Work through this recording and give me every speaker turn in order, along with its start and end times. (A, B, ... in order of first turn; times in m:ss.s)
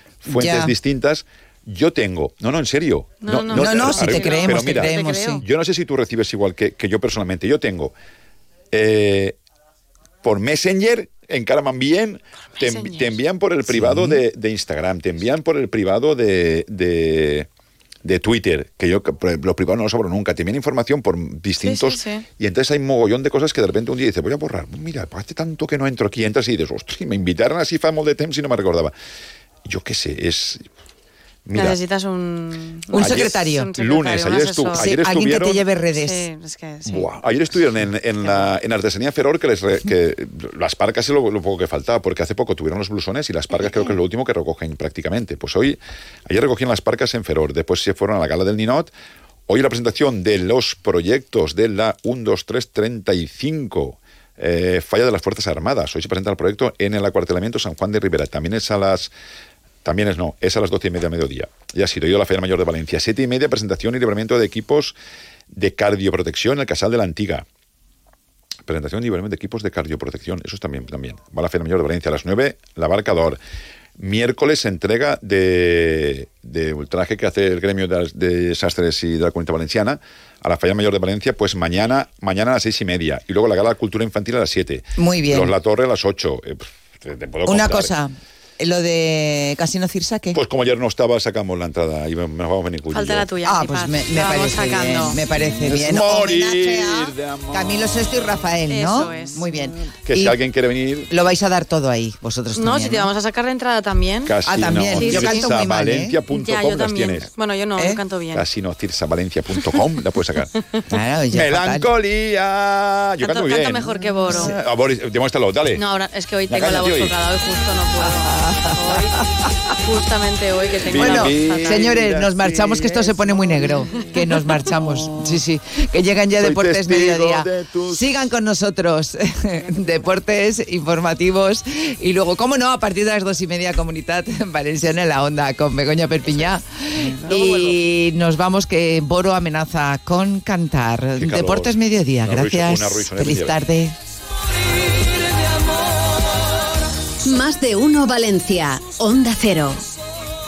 0:00.2-0:07.9 A
0:00.3-0:00.7 B
0:03.2-0:05.4 C
0:03.5-0:05.4 B
0:08.7-0:09.4 A
0:10.2-0:17.5 A
0:12.6-0:13.2 C
0:13.6-0:14.2 B
0:18.0-0:28.9 A
0:21.6-0:22.2 C
0:29.6-0:30.6 A
0:31.4-0:31.8 A
0:31.5-0:35.0 C
0:32.9-0:33.7 B
0:32.9-0:35.6 A
0:34.7-0:36.3 B
0:35.9-0:37.1 C
0:36.8-0:48.9 A
0:38.2-0:38.6 C
0:49.5-0:59.1 A
0:59.8-1:05.0 A
1:05.5-1:07.4 A
1:08.7-1:13.4 A
1:14.0-1:27.9 A
1:25.0-1:25.5 B
1:27.4-1:30.4 B
1:30.3-1:33.3 A
1:32.9-1:35.2 C
1:33.4-1:40.4 B
1:35.4-1:38.0 A
1:38.7-1:39.6 C
1:40.0-1:41.1 A
1:41.1-1:43.1 B
1:42.5-1:45.7 C
1:44.2-1:47.3 A
1:44.4-1:46.2 B
1:46.3-1:48.4 C
1:48.3-1:50.5 A
1:50.9-1:51.9 B
1:51.3-1:55.8 A
1:53.2-1:54.6 C
1:54.1-1:54.6 B
1:55.7-1:59.2 C
1:56.5-1:57.2 A
1:58.0-1:59.2 B
1:59.8-2:02.0 C
2:00.8-2:03.7 A
2:00.9-2:23.9 B
2:06.4-2:08.0 A
2:09.6-2:10.1 C
2:16.2-2:16.5 C
2:17.1-2:17.4 A
2:17.2-2:17.8 C
2:21.2-2:23.6 A
2:27.2-2:29.8 D